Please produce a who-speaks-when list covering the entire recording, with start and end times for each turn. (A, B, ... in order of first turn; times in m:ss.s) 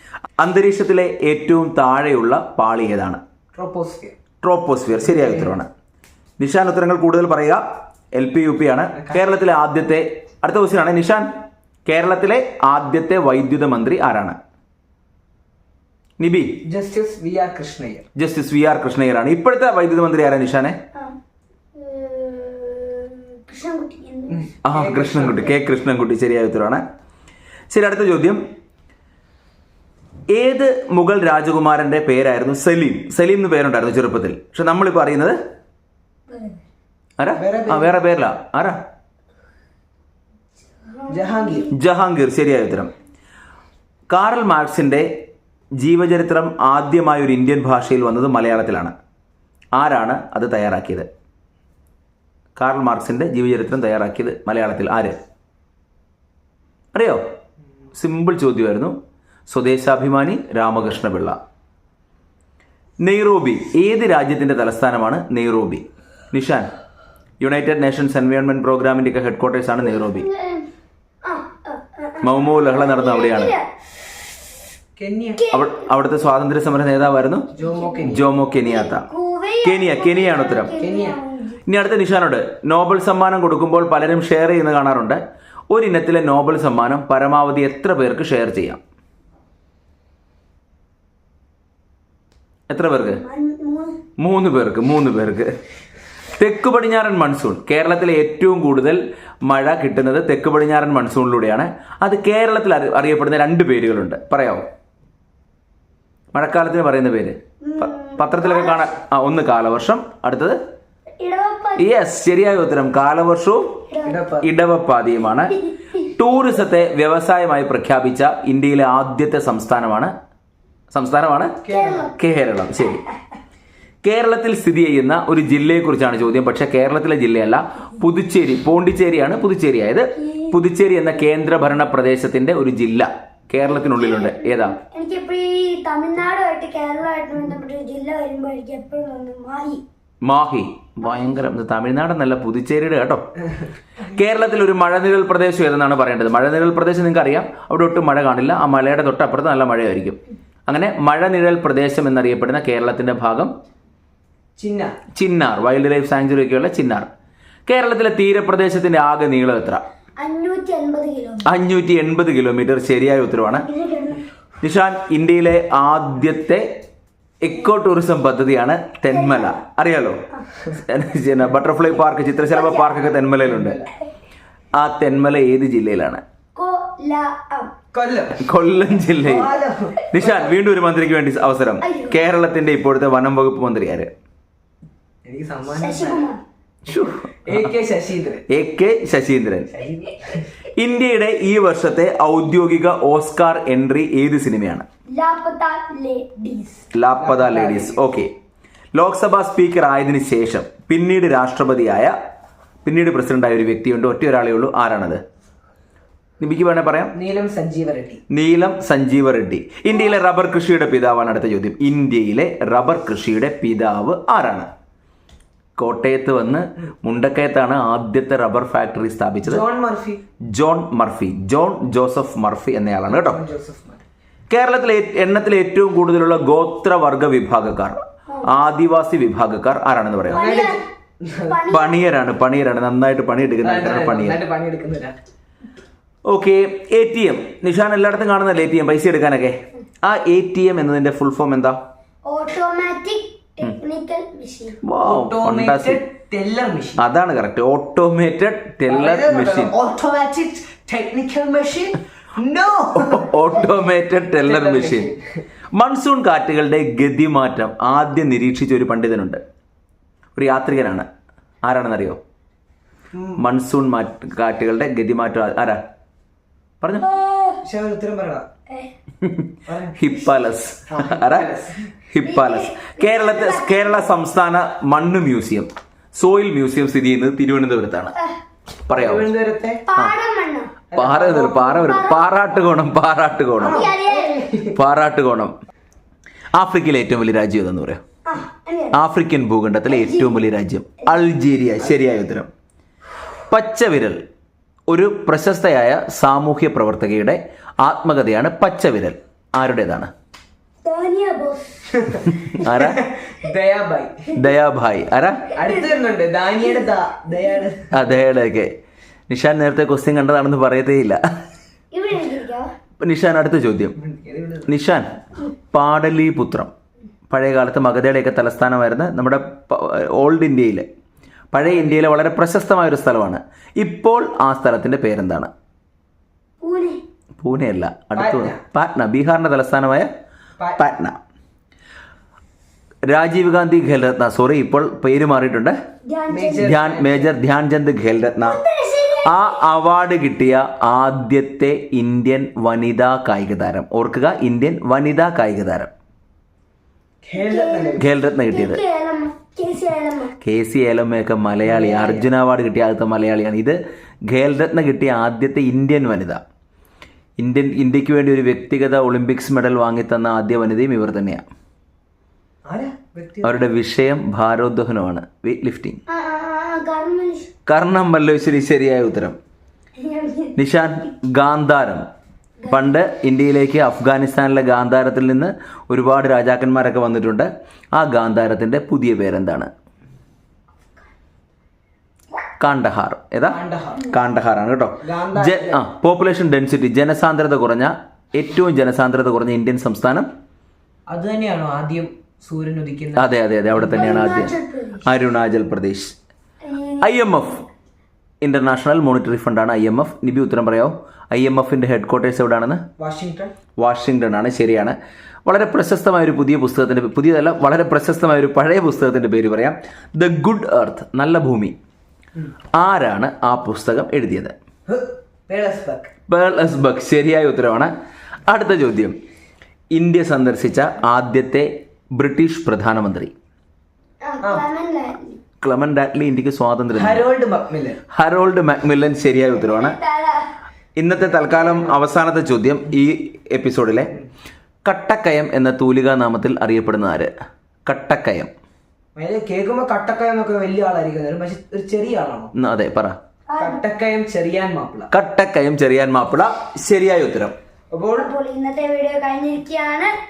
0:00.4-0:03.2 A
0:03.5-0:04.1 B
0:04.4-0:05.7 A
0:05.1-0:05.5 B
0:06.4-0:07.6 A
0:08.1-0:11.3 A
0:11.8-0:14.4 A
0:16.2-0:16.6 A
0:16.6-0:18.0 B
0:18.1-0:20.8 A
0:21.7-0:24.5 C
0:24.3-0:25.5 B
0:24.6-0:26.8 A
0:27.7-0:28.4 A
0:30.3-0:35.4 A
0:36.3-0:36.6 C
0:37.2-0:38.8 A
0:37.3-0:38.0 B
0:40.8-0:41.7 C
0:41.1-0:41.7 B
0:41.7-0:42.9 A
0:44.1-0:45.1 A
0:45.8-0:48.9 A
0:49.7-0:51.1 A
0:52.6-0:55.2 A
0:56.9-0:57.2 A
0:57.9-0:58.9 A
0:59.5-1:01.4 A
1:03.0-1:06.7 A
1:07.4-1:10.2 A
1:09.8-1:10.6 C
1:11.2-1:13.6 C
1:12.2-1:13.5 A
1:15.0-1:15.4 B
1:15.4-1:15.9 C
1:15.5-1:17.5 A
1:17.6-1:18.2 B
1:17.6-1:21.6 C
1:18.0-1:19.0 A
1:19.6-1:20.7 A
1:20.8-1:21.2 B
1:21.7-1:28.8 A
1:32.7-1:33.2 A
1:33.1-1:34.0 C
1:34.2-1:35.5 A
1:36.3-1:44.6 A
1:46.3-1:50.6 A
1:47.6-1:48.9 C
1:51.2-1:51.9 C
1:51.8-1:53.8 A
1:53.9-1:54.2 C
1:54.0-1:54.5 B
1:54.4-1:55.5 A
1:55.6-1:56.1 C
1:56.1-2:00.1 A
2:00.9-2:01.6 A
2:01.6-2:02.1 B
2:01.7-2:02.1 C
2:02.1-2:03.0 A
2:04.0-2:14.8 A
2:10.2-2:10.6 C
2:13.8-2:19.8 C
2:20.2-2:23.2 A
2:24.0-2:33.5 A
2:34.6-2:34.9 B
2:35.2-2:37.1 A
2:37.7-2:39.8 A
2:40.2-2:41.5 C
2:41.4-2:43.6 A
2:43.6-2:44.2 C
2:44.6-2:46.6 A
2:47.4-2:50.2 A
2:49.1-2:49.6 C
2:50.7-2:53.8 A
2:52.5-2:53.1 C
2:53.4-2:53.9 B
2:54.8-2:56.2 A
2:56.5-2:57.7 C
2:57.9-2:58.4 B
2:58.4-2:59.5 A
2:59.2-3:00.5 B
3:00.1-3:04.1 A
3:01.8-3:02.2 C
3:05.2-3:06.2 B
3:05.8-3:06.4 C
3:06.9-3:07.6 A
3:07.4-3:08.4 B
3:08.5-3:09.7 A
3:09.7-3:10.5 B
3:10.8-3:14.8 A
3:15.2-3:16.8 C
3:16.9-3:18.3 A
3:17.2-3:18.0 B
3:18.9-3:22.1 A
3:22.8-3:25.2 A
3:26.4-3:27.1 A
3:27.1-3:28.2 B
3:28.3-3:34.7 A
3:35.8-3:39.6 A
3:39.4-3:40.2 B
3:40.5-3:43.4 A
3:43.1-3:44.0 B
3:44.5-3:50.5 A
3:50.3-3:51.6 B
3:50.3-3:50.8 C
3:51.5-3:52.0 C
3:51.7-3:54.4 A
3:53.6-3:55.1 B
3:56.3-4:01.8 A
4:02.2-4:04.8 C
4:04.8-4:06.0 A
4:05.0-4:07.0 B
4:07.0-4:09.7 A
4:08.9-4:13.3 B
4:13.0-4:15.1 A
4:14.4-4:15.2 B
4:15.7-4:19.4 A
4:20.3-4:21.1 A
4:21.6-4:22.2 A
4:23.1-4:23.4 B
4:23.4-4:25.8 A
4:26.8-4:27.1 A
4:27.0-4:27.6 C
4:27.6-4:28.5 B
4:29.2-4:31.5 A
4:29.6-4:30.3 B
4:30.9-4:31.9 B
4:32.1-4:38.1 A
4:32.2-4:34.0 C
4:38.9-4:39.3 A
4:38.9-4:39.8 B
4:39.9-4:40.7 C
4:40.9-4:41.7 B
4:40.9-4:43.9 A
4:41.7-4:42.3 C
4:43.6-4:44.8 B
4:43.6-4:44.5 C
4:44.7-4:45.5 A
4:46.6-4:48.0 A
4:48.2-4:49.0 C
4:48.9-4:52.5 A
4:49.9-4:50.4 C
4:53.5-4:54.2 A
4:54.9-5:00.1 A
5:00.8-5:02.1 C
5:02.0-5:04.3 B
5:02.4-5:03.0 A
5:04.3-5:05.5 A
5:05.6-5:08.1 B
5:07.9-5:08.7 A
5:09.3-5:11.2 A
5:11.9-5:12.7 C
5:13.0-5:13.9 A
5:14.0-5:14.7 B
5:14.7-5:15.1 A
5:15.7-5:16.7 A
5:17.3-5:20.8 A
5:21.5-5:25.5 A
5:21.5-5:22.0 B
5:26.6-5:27.0 C
5:27.4-5:30.1 A
5:28.1-5:28.6 B
5:30.6-5:30.8 B
5:30.8-5:31.2 A
5:33.1-5:35.7 A
5:36.1-5:36.7 C
5:36.3-5:37.3 B
5:36.6-5:38.6 A
5:38.4-5:39.6 C
5:39.2-5:45.9 A
5:47.2-5:48.1 B
5:47.4-5:50.3 C
5:48.0-5:48.8 A
5:50.4-5:53.8 A
5:51.6-5:52.3 B
5:54.3-5:56.4 A
5:57.4-6:01.4 A
6:02.6-6:03.6 B
6:03.4-6:06.0 A
6:06.1-6:07.5 C
6:07.7-6:09.4 A
6:10.0-6:10.5 C
6:10.6-6:12.0 A
6:12.7-6:19.7 A
6:22.6-6:30.3 A
6:23.4-6:24.1 B
6:25.0-6:25.8 B
6:31.1-6:34.3 B
6:33.2-6:34.5 A
6:33.9-6:35.1 C
6:35.0-6:36.1 A
6:36.6-6:37.1 C
6:37.0-6:37.6 A
6:38.4-6:42.8 A
6:43.0-6:43.5 B
6:43.8-6:51.8 A
6:52.8-6:54.5 A
6:54.9-6:56.1 B
6:56.3-6:57.9 A
6:58.5-6:59.1 A
6:59.9-7:03.3 A
7:04.2-7:05.4 C
7:05.6-7:07.2 A
7:06.9-7:08.0 B
7:08.1-7:10.0 A
7:09.6-7:10.4 C
7:11.0-7:14.1 A
7:11.2-7:11.9 B
7:14.8-7:17.3 A
7:17.9-7:18.5 A
7:19.2-7:22.5 B
7:22.5-7:23.2 A
7:23.5-7:23.8 C
7:23.6-7:25.1 B
7:25.1-7:27.5 A
7:27.9-7:28.3 B
7:28.1-7:30.1 C